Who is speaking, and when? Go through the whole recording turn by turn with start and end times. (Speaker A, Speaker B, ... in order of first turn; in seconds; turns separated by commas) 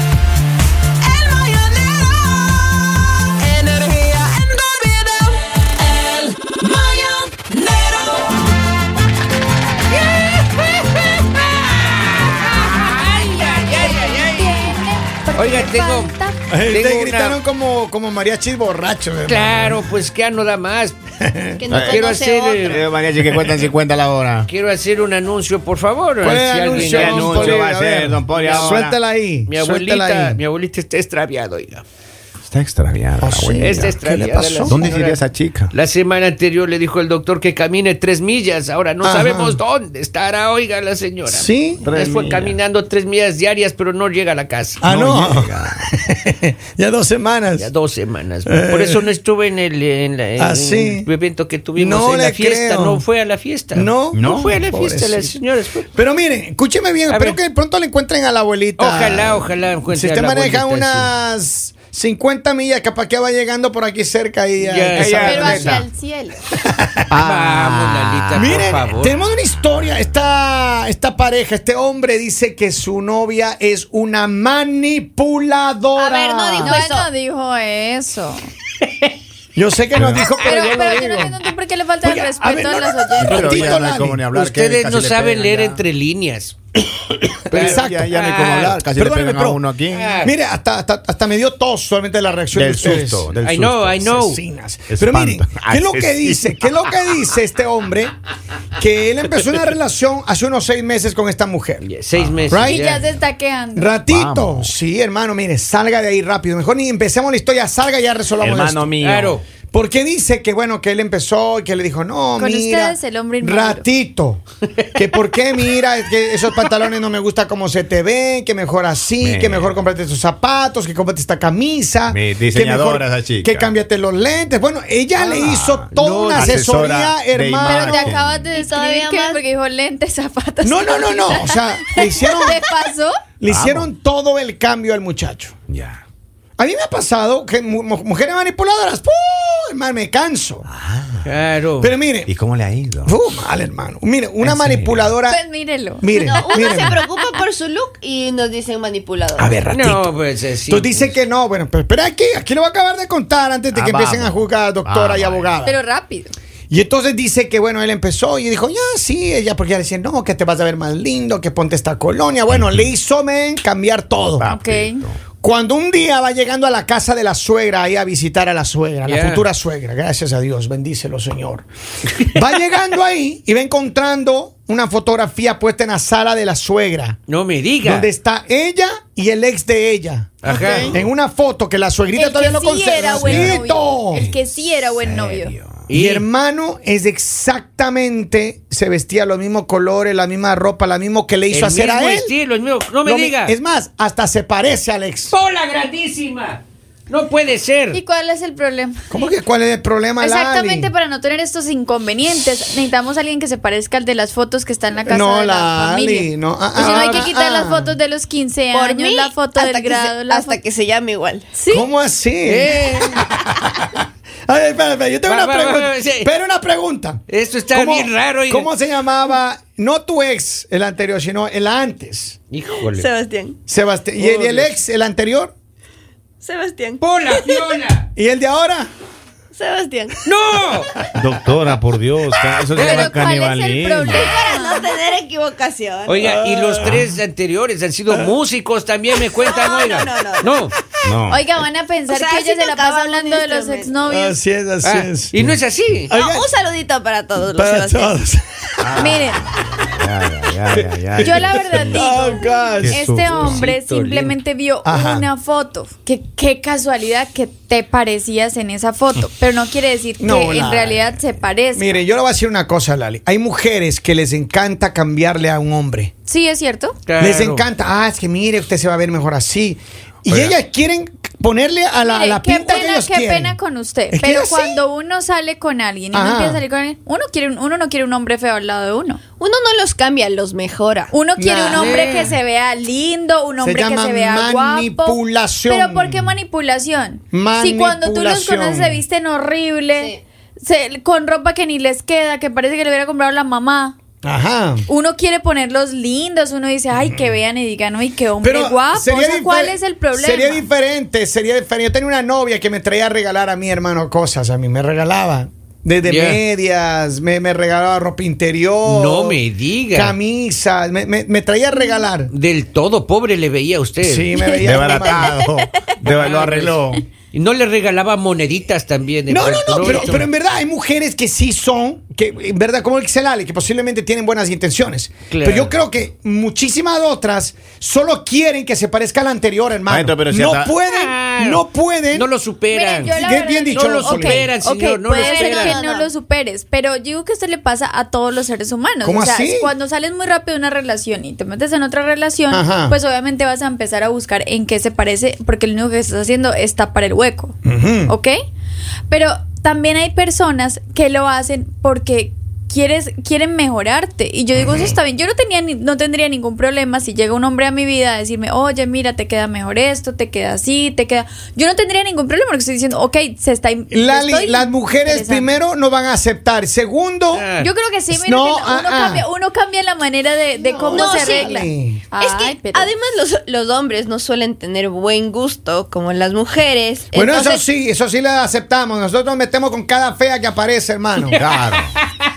Speaker A: 1.3-1.8, Speaker A: 4.2-5.1, Speaker B: 6.0-7.9, Speaker B: 10.1-14.8, Speaker C: 13.1-16.4, Speaker B: 15.3-16.1, Speaker D: 16.5-19.9, Speaker B: 16.6-17.4, Speaker B: 19.3-21.0, Speaker D: 21.2-21.6, Speaker A: 21.6-22.8, Speaker E: 21.7-22.1, Speaker B: 21.7-23.5, Speaker E: 22.7-24.5, Speaker B: 24.5-27.7, Speaker D: 26.2-30.4, Speaker E: 26.7-29.0, Speaker B: 28.3-28.8, Speaker B: 29.5-31.8, Speaker E: 32.4-35.7, Speaker D: 33.2-34.8, Speaker B: 33.6-35.2, Speaker B: 35.7-44.8, Speaker D: 39.0-39.6, Speaker D: 41.3-41.8, Speaker E: 41.8-42.6, Speaker D: 44.8-47.7, Speaker E: 44.9-45.9, Speaker B: 47.6-55.9, Speaker D: 48.5-49.1, Speaker D: 50.4-51.1, Speaker D: 51.8-53.0, Speaker D: 53.8-55.3, Speaker E: 54.1-54.6, Speaker D: 55.9-65.7, Speaker B: 57.1-57.4, Speaker B: 58.8-61.1, Speaker B: 64.6-65.8, Speaker E: 64.9-65.8, Speaker C: 65.2-66.4, Speaker D: 66.7-67.6, Speaker E: 67.1-68.5, Speaker B: 67.1-69.1, Speaker D: 68.3-76.8, Speaker A: 76.0-77.1, Speaker C: 76.6-78.4, Speaker D: 79.5-81.4, Speaker E: 79.9-80.3, Speaker C: 80.4-83.8, Speaker D: 82.0-84.2, Speaker E: 83.2-85.8, Speaker B: 84.3-86.6, Speaker D: 87.5-88.2, Speaker B: 87.5-88.8, Speaker E: 87.5-90.1, Speaker D: 88.9-93.3, Speaker B: 89.9-90.3, Speaker E: 92.5-94.0, Speaker B: 93.4-94.4, Speaker D: 94.0-98.1, Speaker E: 94.9-96.7, Speaker D: 98.8-101.9, Speaker B: 101.8-103.0, Speaker E: 102.1-103.2, Speaker D: 102.5-102.8, Speaker C: 102.7-104.0, Speaker D: 103.8-108.9, Speaker E: 104.1-104.7, Speaker E: 108.4-109.4, Speaker B: 109.0-109.4, Speaker D: 109.7-114.4, Speaker C: 112.4-113.9, Speaker D: 114.9-128.2, Speaker E: 119.2-119.8, Speaker E: 122.1-123.7, Speaker E: 125.2-128.5, Speaker C: 127.6-133.2, Speaker A: 128.5-129.4, Speaker D: 130.6-132.6, Speaker D: 133.4-135.6, Speaker E: 133.5-133.9, Speaker E: 135.7-136.0, Speaker D: 136.6-140.7, Speaker E: 140.7-141.3, Speaker B: 141.2-141.9, Speaker D: 141.8-142.3, Speaker E: 142.3-143.1, Speaker D: 143.1-145.4, Speaker E: 144.4-145.2, Speaker C: 145.3-147.1, Speaker D: 146.0-147.0, Speaker A: 146.1-149.6, Speaker D: 149.4-150.1, Speaker B: 149.7-151.1, Speaker D: 150.7-155.8, Speaker E: 153.7-155.6, Speaker C: 155.6-156.3, Speaker D: 156.7-164.5, Speaker E: 164.4-165.2, Speaker C: 164.5-165.0, Speaker D: 165.4-171.7, Speaker B: 169.1-169.4, Speaker D: 172.2-177.2, Speaker B: 177.3-178.1, Speaker D: 177.8-184.2, Speaker B: 180.4-181.0, Speaker E: 180.7-181.0, Speaker C: 182.1-185.5, Speaker E: 183.1-183.7, Speaker E: 184.2-185.9, Speaker B: 185.9-186.3, Speaker D: 185.9-192.3, Speaker B: 191.5-193.6, Speaker D: 193.0-195.3, Speaker B: 195.3-198.0, Speaker C: 197.9-199.1, Speaker D: 199.1-200.9, Speaker C: 200.2-210.6, Speaker D: 205.0-207.9, Speaker A: 206.8-207.2, Speaker A: 208.7-211.5, Speaker C: 211.5-211.9, Speaker D: 211.7-222.4, Speaker B: 212.4-213.3, Speaker B: 215.3-216.3, Speaker B: 217.3-218.7, Speaker B: 222.5-223.1, Speaker A: 222.8-223.6, Speaker D: 223.7-225.5, Speaker B: 224.2-224.7, Speaker A: 226.4-227.6, Speaker B: 227.0-228.1, Speaker D: 228.2-228.9, Speaker A: 229.5-230.2, Speaker B: 230.2-231.1, Speaker E: 231.1-234.4, Speaker B: 232.7-233.1, Speaker C: 232.8-234.9, Speaker A: 234.1-236.2, Speaker B: 236.1-240.8, Speaker D: 236.2-237.1, Speaker A: 239.4-240.5, Speaker E: 241.0-241.5, Speaker C: 241.3-244.4, Speaker A: 242.1-243.9, Speaker D: 244.1-246.5, Speaker B: 244.8-246.1, Speaker A: 246.1-248.2, Speaker D: 247.5-249.2, Speaker E: 248.8-252.1, Speaker C: 248.9-249.5, Speaker C: 251.2-262.0, Speaker D: 251.3-253.5, Speaker E: 252.8-253.5, Speaker B: 253.2-254.4, Speaker D: 254.8-255.3, Speaker D: 260.2-261.1, Speaker D: 261.8-266.1, Speaker C: 266.3-267.0, Speaker B: 267.1-267.6, Speaker D: 267.2-273.6, Speaker C: 272.0-279.2, Speaker D: 274.1-274.8, Speaker D: 276.1-276.6, Speaker A: 279.4-281.1, Speaker C: 281.1-294.0, Speaker D: 281.4-282.2, Speaker B: 281.7-282.4, Speaker D: 283.6-286.3, Speaker D: 287.3-289.0, Speaker A: 290.0-290.2, Speaker D: 294.2-294.9, Speaker C: 294.9-300.6, Speaker D: 296.9-297.3, Speaker D: 298.4-309.4, Speaker B: 306.0-306.4, Speaker B: 308.9-310.2, Speaker D: 309.9-312.3, Speaker B: 312.3-314.4, Speaker D: 314.0-315.4, Speaker E: 314.6-317.1, Speaker A: 314.9-316.0, Speaker B: 316.0-316.8, Speaker B: 317.3-320.3, Speaker D: 319.3-332.3, Speaker B: 325.3-325.7, Speaker E: 329.9-330.8, Speaker B: 330.9-335.8, Speaker C: 332.7-348.4, Speaker D: 333.1-334.5, Speaker A: 335.1-336.1, Speaker D: 339.0-339.7, Speaker D: 342.5-343.0, Speaker D: 347.6-348.1, Speaker C: 349.1-365.5, Speaker D: 354.6-354.9, Speaker D: 363.9-367.5, Speaker B: 367.3-367.7, Speaker C: 367.6-372.9, Speaker D: 368.1-369.3, Speaker D: 370.6-372.0, Speaker A: 370.9-371.6, Speaker A: 372.2-377.6, Speaker D: 377.1-381.4, Speaker B: 381.2-382.0, Speaker E: 381.4-381.9